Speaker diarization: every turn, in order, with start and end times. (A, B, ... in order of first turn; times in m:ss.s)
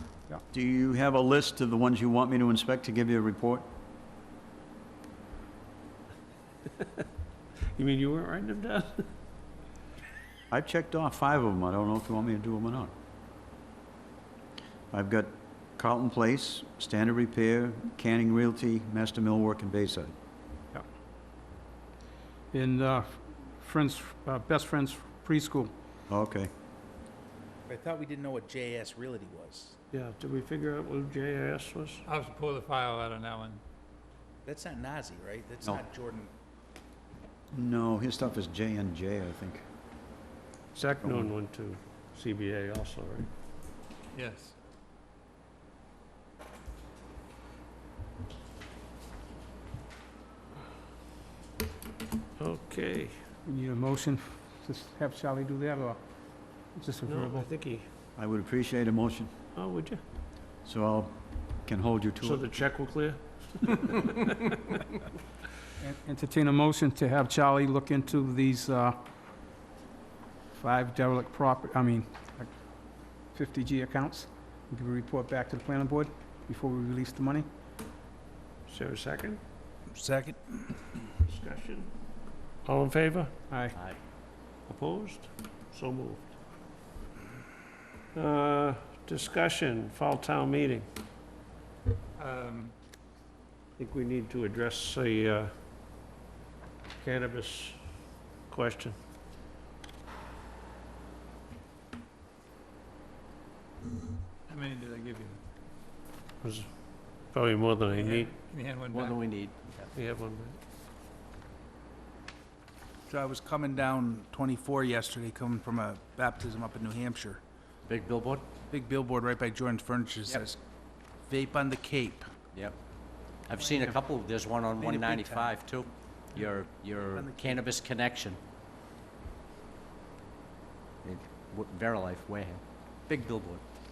0:00.5-0:03.7 A
0:07.7-0:09.1 B
0:10.5-0:12.9 A
0:14.9-0:20.1 A
0:22.5-0:25.7 C
0:26.1-0:26.5 A
0:27.7-0:29.8 D
0:29.9-0:32.0 B
0:32.0-0:33.6 E
0:34.4-0:36.3 D
0:37.5-0:39.6 A
0:40.7-0:43.3 B
0:41.0-0:41.3 A
0:44.1-0:44.6 E
0:52.4-0:53.1 B
0:53.5-0:56.0 C
0:56.7-0:57.5 C
0:57.0-0:57.9 B
0:58.2-0:59.3 A
0:59.6-1:00.0 B
1:00.6-1:02.6 A
1:02.2-1:04.5 B
1:05.8-1:09.0 C
1:10.5-1:12.5 C
1:13.3-1:17.5 C
1:18.7-1:19.4 B
1:19.9-1:20.9 D
1:21.2-1:21.9 B
1:22.6-1:23.3 B
1:23.5-1:23.8 C
1:24.7-1:26.4 B
1:28.1-1:30.9 B
1:32.2-1:32.8 E
1:33.8-1:35.5 B
1:37.0-1:37.8 B
1:38.5-1:39.0 B
1:44.5-1:45.4 E
1:46.4-1:46.7 B
1:47.2-1:48.3 B
1:48.0-1:49.3 E
1:48.9-1:49.9 F
1:49.9-1:50.6 B
1:53.1-1:57.4 D
1:57.9-1:58.5 F
1:58.6-2:00.6 D
2:01.3-2:02.3 D
2:03.5-2:08.4 F
2:03.6-2:05.8 D
2:06.4-2:07.8 D
2:11.0-2:13.6 F